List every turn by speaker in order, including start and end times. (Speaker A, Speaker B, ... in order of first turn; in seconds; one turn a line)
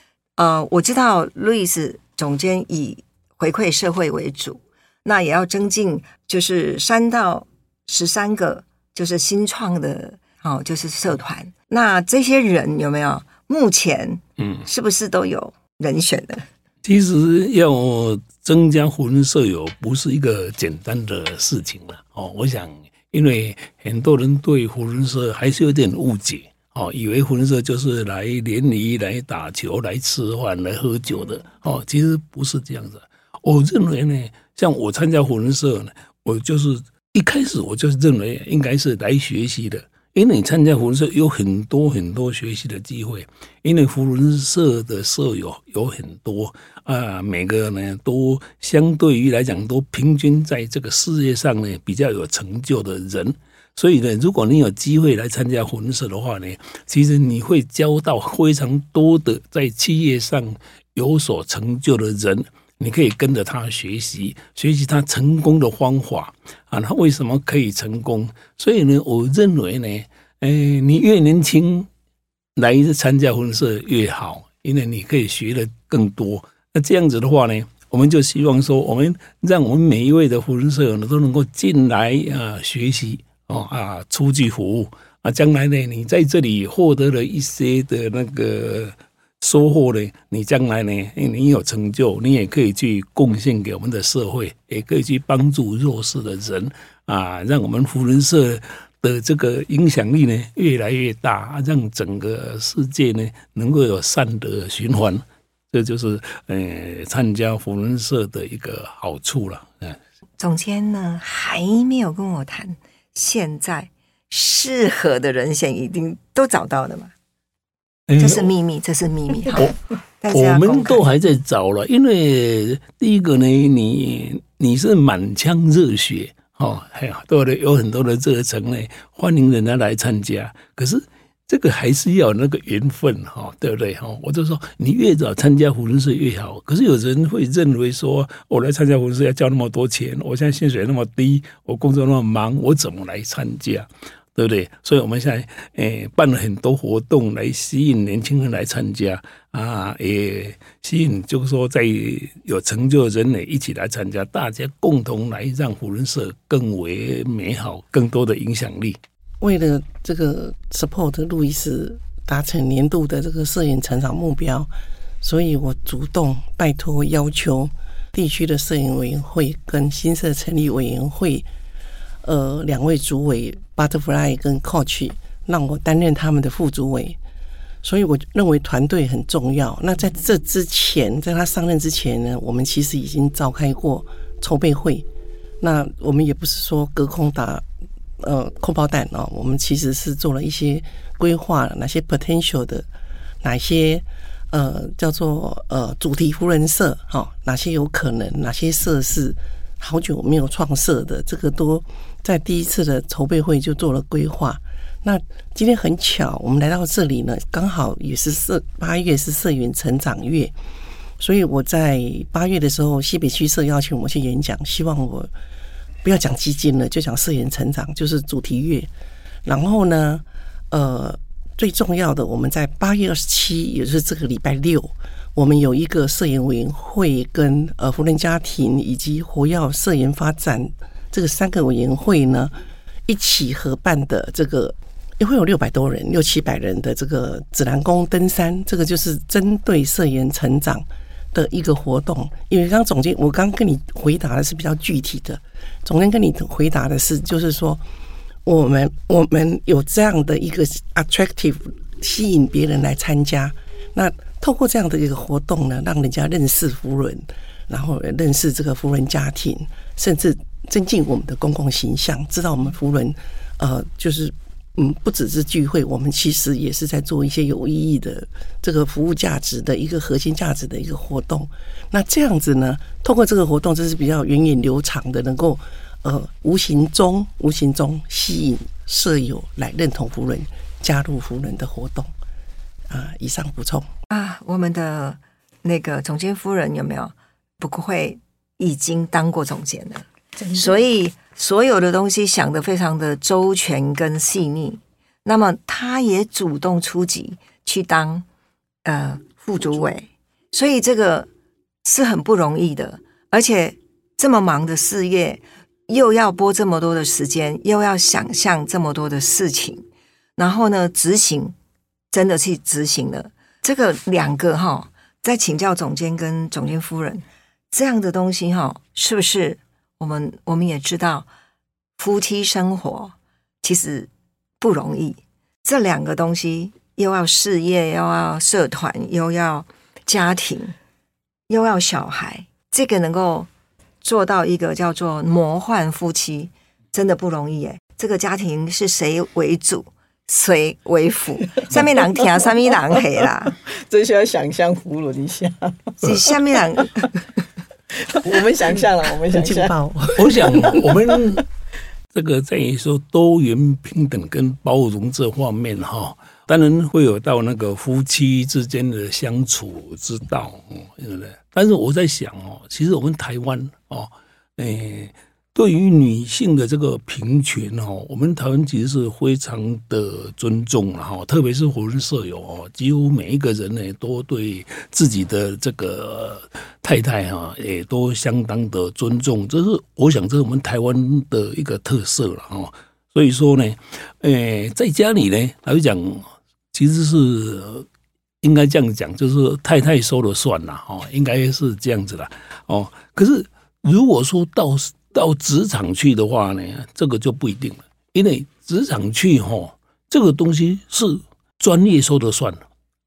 Speaker A: 0.4-16.4
Speaker B: 16.8-71.9
Speaker B: 72.5-110.0
Speaker A: 110.4-117.1
Speaker B: 118.1-118.5
Speaker A: 118.2-121.0
Speaker B: 120.3-159.0
Speaker C: 159.4-164.7
Speaker C: 165.2-171.4
Speaker C: 172.2-177.2
Speaker C: 177.8-185.1
Speaker C: 185.6-187.6
Speaker C: 188.2-192.9
Speaker C: 193.4-210.5
Speaker C: 211.2-215.3
Speaker C: 216.0-218.9
Speaker C: 219.4-232.5
Speaker C: 233.1-247.8
Speaker C: 248.4-282.1
Speaker C: 282.9-283.9
Speaker A: 284.1-298.2
Speaker D: 290.4-290.8
Speaker A: 298.8-301.3
Speaker A: 301.8-309.8
Speaker A: 310.4-311.5
Speaker A: 312.1-321.3
Speaker A: 322.0-324.1
Speaker A: 324.6-330.7
Speaker A: 331.5-333.5
Speaker A: 334.0-343.6
Speaker D: 343.6-346.3
Speaker A: 346.0-347.1
Speaker D: 348.0-349.7
Speaker C: 349.3-350.8
Speaker B: 350.1-351.4
Speaker D: 350.5-351.4
Speaker B: 352.1-387.9
Speaker B: 388.4-402.6